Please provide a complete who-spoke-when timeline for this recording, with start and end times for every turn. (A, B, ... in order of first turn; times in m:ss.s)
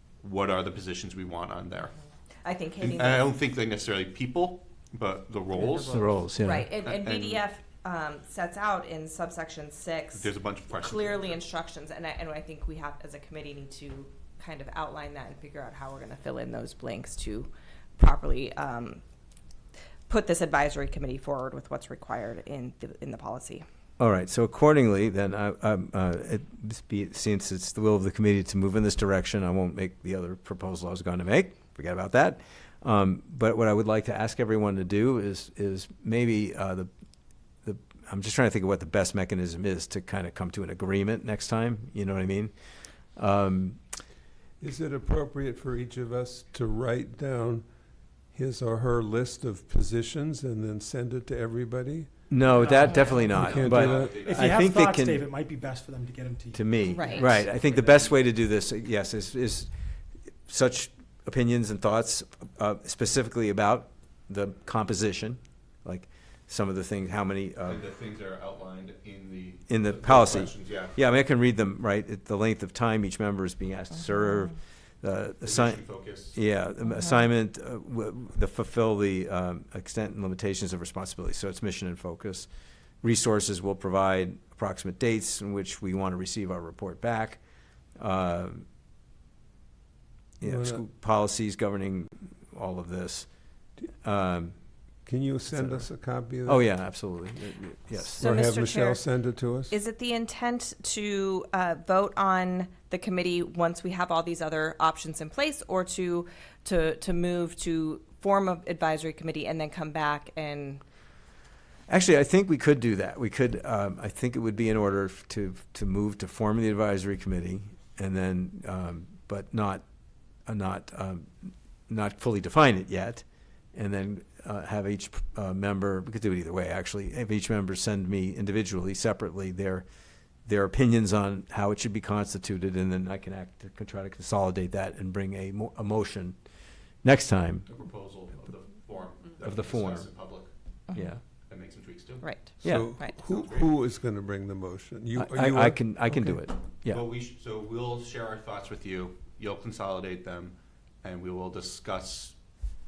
0:00.2-0:01.9 A
0:02.4-0:03.3 B
0:02.8-0:06.2 A
0:05.9-0:06.7 C
0:06.4-0:19.0 B
0:06.8-0:07.4 A
0:10.1-0:11.4 A
0:20.1-0:23.6 B
0:24.0-0:36.9 C
0:37.6-0:42.5 C
0:43.2-0:43.8 C
0:44.6-0:47.6 D
0:48.3-0:52.3 D
0:52.3-0:55.2 C
0:52.4-0:57.3 E
0:53.2-0:54.6 A
0:53.3-0:54.2 D
0:56.5-0:59.7 C
0:56.8-0:57.4 B
1:00.5-1:07.8 C
1:07.6-1:11.0 A
1:09.7-1:22.5 C
1:15.4-1:16.4 A
1:23.0-1:27.4 C
1:28.0-1:28.6 C
1:30.4-1:33.3 C
1:30.4-1:30.8 D
1:34.0-1:34.6 C
1:35.1-1:36.7 D
1:35.5-1:35.9 C
1:36.5-1:38.4 C
1:38.2-1:39.8 D
1:38.2-1:39.0 B
1:39.7-1:50.8 B
1:51.9-1:59.8 C
2:00.4-2:09.9 C
2:10.4-2:16.4 C
2:17.0-2:17.7 C
2:17.7-2:20.5 A
2:19.4-2:20.1 C
2:20.9-2:21.2 C
2:21.5-2:22.2 A
2:22.2-2:23.2 B
2:22.6-2:26.4 D
2:22.6-2:23.0 C
2:23.3-2:23.7 A
2:25.2-2:27.0 C
2:26.9-2:32.4 A